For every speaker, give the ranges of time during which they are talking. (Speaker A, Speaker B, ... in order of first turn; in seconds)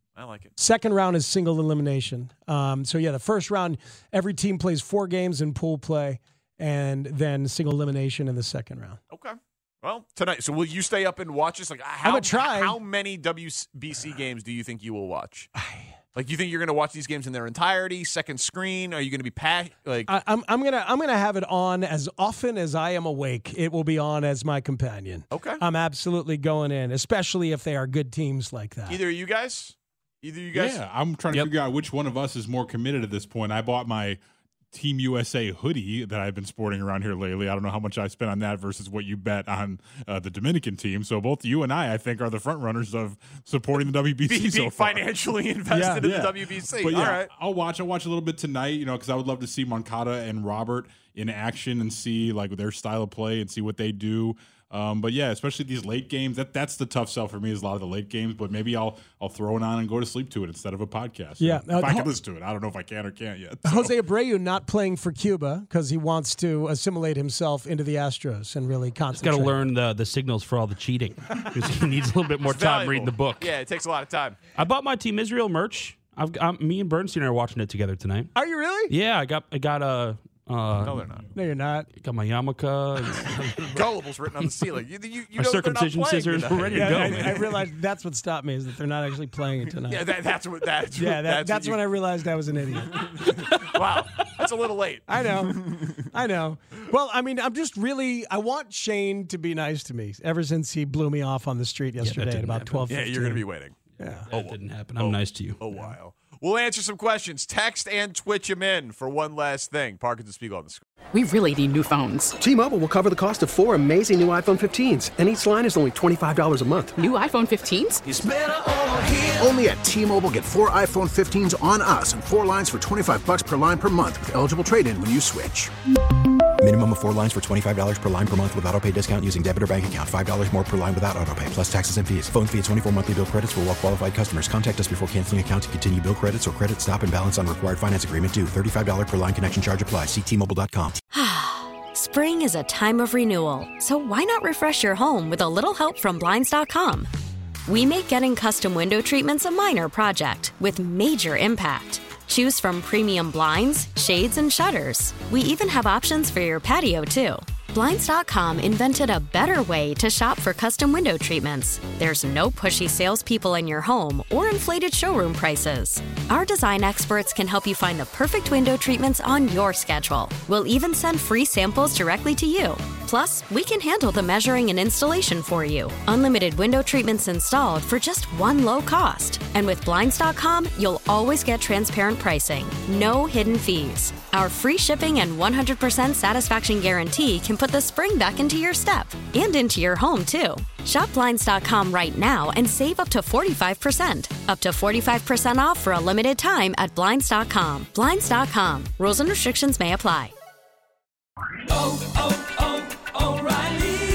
Speaker A: 0.2-0.5, 9.1-15.5, 16.1-20.1, 25.3-25.6, 28.9-30.8, 44.3-47.3, 72.4-74.4, 80.8-81.3, 83.7-87.5, 89.7-92.0, 92.8-95.9, 102.9-103.8, 104.3-110.8
Speaker B: 0.6-9.0, 12.0-12.8, 15.6-15.9, 20.1-29.0, 45.7-46.1, 61.4-62.1, 63.6-69.7, 78.3-78.9, 81.3-81.9, 86.7-90.1, 91.0-93.0, 95.1-103.4, 104.0-104.3
Speaker C: 30.5-34.2, 34.7-45.0, 45.9-63.9
Speaker D: 69.1-73.5, 74.6-78.3, 78.9-81.1, 82.0-84.7, 85.3-87.6, 102.0-102.9, 104.1-105.6
Speaker E: 111.1-112.3, 117.0-118.0
Speaker F: 112.4-117.0
Speaker G: 118.1-125.7
Speaker H: 126.6-141.0
Speaker I: 141.1-147.1, 147.7-200.3